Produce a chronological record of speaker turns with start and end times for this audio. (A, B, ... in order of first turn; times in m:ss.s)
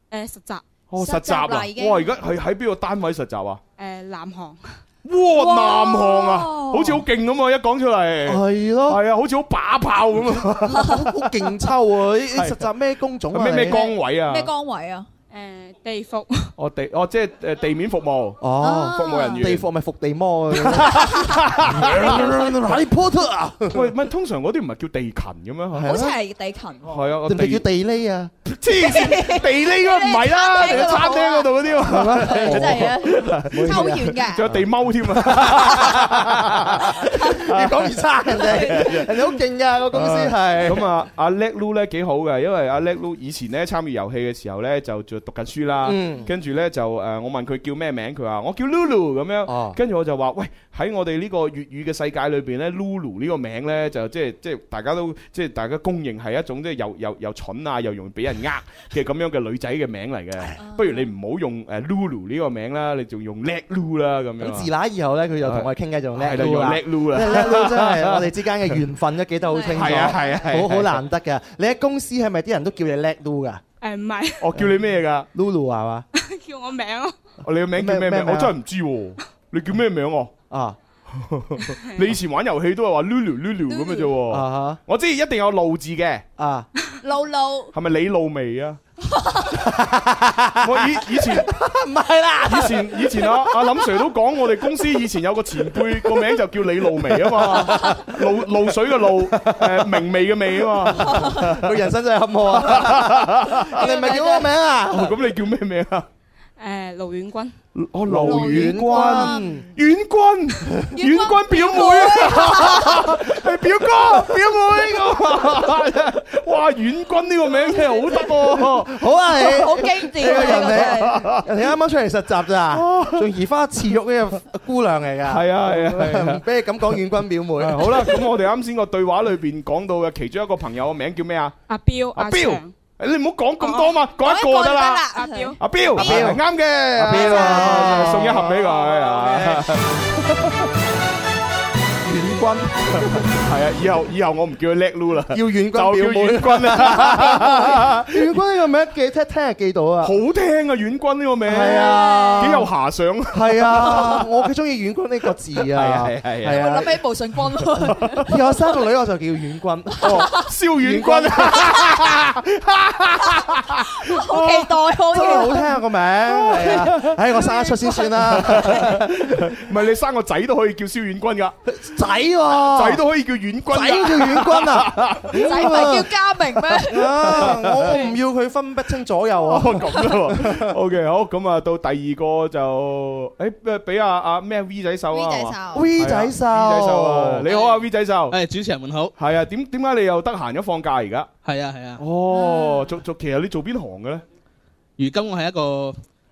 0:00.1-0:00.6 A
0:00.9-0:03.6 B
0:01.0-0:02.1 C
0:03.8-0:04.8 A
0:05.0-0:11.2 B
0:05.3-0:07.0 C
0:08.2-0:09.0 D
0:10.6-0:13.8 D
0:12.3-0:12.6 B
0:13.3-0:14.5 B
0:13.7-0:15.1 C
0:15.3-0:16.5 A
0:16.6-0:19.7 B
0:18.4-0:23.9 D
0:18.6-0:19.4 C
0:20.7-0:22.8 B
0:21.0-0:21.4 C
0:22.0-0:22.4 C
0:23.7-0:25.9 B
0:25.7-0:26.1 D
0:25.8-0:27.0 C
0:26.8-0:27.6 B
0:27.3-0:28.3 D
0:28.4-0:39.2 B
0:28.8-0:34.5 C
0:31.9-0:34.6 D
0:35.2-0:40.8 D
0:37.2-0:37.4 C
0:38.4-0:39.1 C
0:39.9-1:04.7 B
0:45.8-0:46.3 D
0:49.5-0:49.8 D
1:00.6-1:01.1 C
1:04.4-1:13.6 D
1:05.4-1:08.8 B
1:09.5-1:10.4 C
1:09.7-1:11.0 B
1:13.8-1:14.5 A
1:14.4-1:15.3 B
1:15.3-1:16.1 D
1:16.1-1:17.2 A
1:17.4-1:20.3 B
1:17.8-1:18.5 D
1:20.5-1:20.8 D
1:21.1-1:26.2 B
1:23.7-1:24.2 C
1:24.3-1:24.8 D
1:26.4-1:26.7 D
1:27.0-1:27.7 C
1:27.7-1:28.8 B
1:29.1-1:29.6 C
1:29.6-1:34.0 D
1:30.6-1:31.5 B
1:32.5-1:41.8 B
1:35.8-1:36.3 D
1:37.1-1:38.4 D
1:39.2-1:40.0 D
1:40.8-1:45.1 D
1:41.0-1:41.5 C
1:42.5-1:43.7 B
1:43.6-1:44.5 C
1:44.9-1:46.1 B
1:46.6-1:47.6 A
1:47.8-1:59.1 B
1:48.1-1:49.7 D
1:48.2-1:49.5 C
1:50.9-1:53.2 C
1:55.2-1:55.6 D
1:58.9-2:08.2 D
1:59.4-2:01.2 C
2:00.2-2:01.5 B
2:02.7-2:03.3 B
2:05.3-2:07.0 B
2:07.6-2:11.6 B
2:11.7-2:12.7 A
2:12.1-2:15.1 B
2:13.6-2:14.0 A
2:14.1-2:16.3 C
2:15.1-2:15.6 A
2:15.6-2:20.5 B
2:16.0-2:16.4 D
2:17.0-2:19.8 D
2:17.1-2:18.4 C
2:22.1-2:23.2 D
2:22.9-2:28.3 B
2:25.3-2:30.2 D
2:30.0-2:34.3 B
2:31.5-2:32.7 D
2:31.6-2:32.6 C
2:33.3-2:36.9 D
2:35.7-2:36.7 B
2:36.5-2:38.2 C
2:37.6-2:38.3 B
2:38.2-2:41.7 D
2:40.0-2:40.5 C
2:40.0-2:44.8 B
2:41.5-2:42.1 C
2:43.2-2:45.8 C
2:45.1-2:49.6 D
2:46.3-2:47.2 B
2:46.5-2:48.9 C
2:48.2-2:51.6 B
2:51.7-2:53.0 D
2:52.5-2:55.9 B
2:53.7-2:56.1 D
2:55.4-2:58.1 C
2:56.7-3:00.7 D
2:57.3-2:58.0 B
2:59.5-3:08.4 B
3:05.1-3:05.9 C
3:05.7-3:07.5 D
3:08.3-3:09.1 E
3:09.2-3:11.3 B
3:11.4-3:12.0 E
3:12.0-3:14.2 B
3:12.3-3:12.9 C
3:15.0-3:16.0 E